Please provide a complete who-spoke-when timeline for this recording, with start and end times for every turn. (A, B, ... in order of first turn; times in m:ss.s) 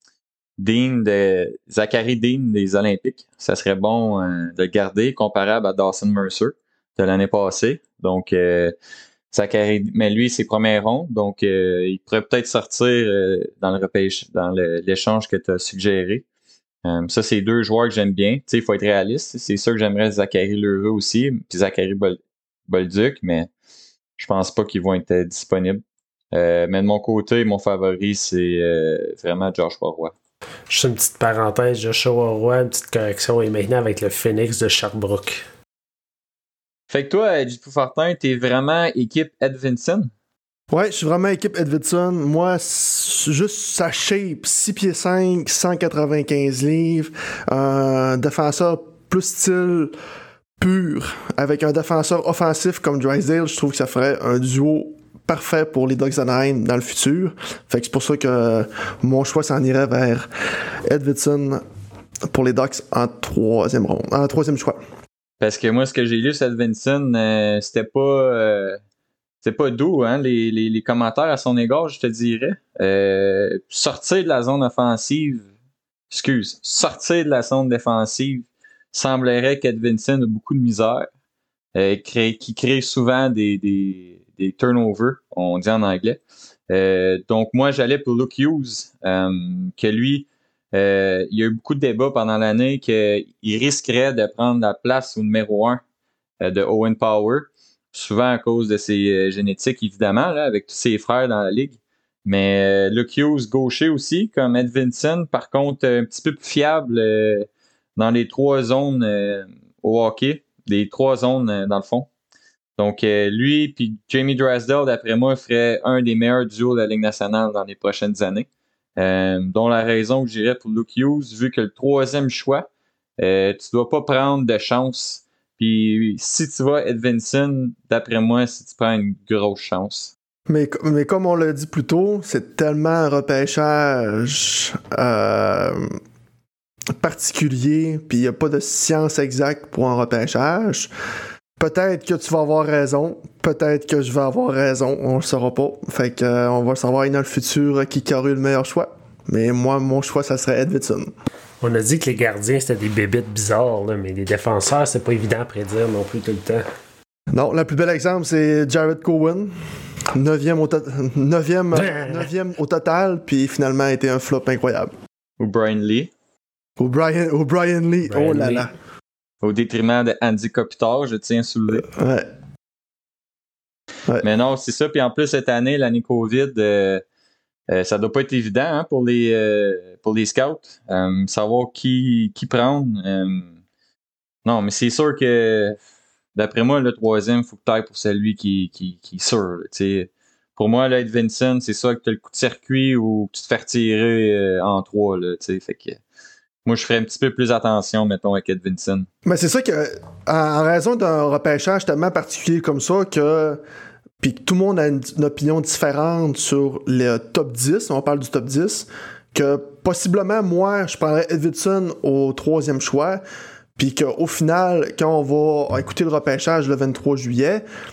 0:00.6-0:08.7 A
0:09.3-0:16.2 A
0:16.8-0:23.5 A
0:24.2-0:30.1 A
0:30.7-0:35.4 B
0:36.9-0:40.1 A
0:40.7-0:49.9 C
0:50.6-1:00.3 C
1:00.9-1:01.6 C
1:02.3-1:04.8 C
1:05.4-1:08.8 A
1:09.4-1:15.4 A
1:16.1-1:21.1 A
1:21.7-1:35.8 A
1:36.4-1:52.1 A
1:52.8-2:10.1 A
2:10.5-2:15.9 C
2:17.0-2:20.9 C
2:21.6-2:31.1 C
2:31.6-2:36.6 B
2:37.3-2:39.5 C
2:40.1-2:44.9 C
2:41.8-2:42.1 B
2:45.4-2:46.1 A
2:46.8-2:48.7 C
2:48.0-2:48.7 B
2:49.4-2:51.9 A
2:51.9-2:52.3 C
2:54.2-2:57.0 A
2:57.7-3:03.5 A
3:04.4-3:05.8 A
3:06.3-3:16.0 A
3:16.6-3:19.1 A
3:19.3-3:23.6 C
3:24.2-3:33.2 C
3:33.8-3:37.6 C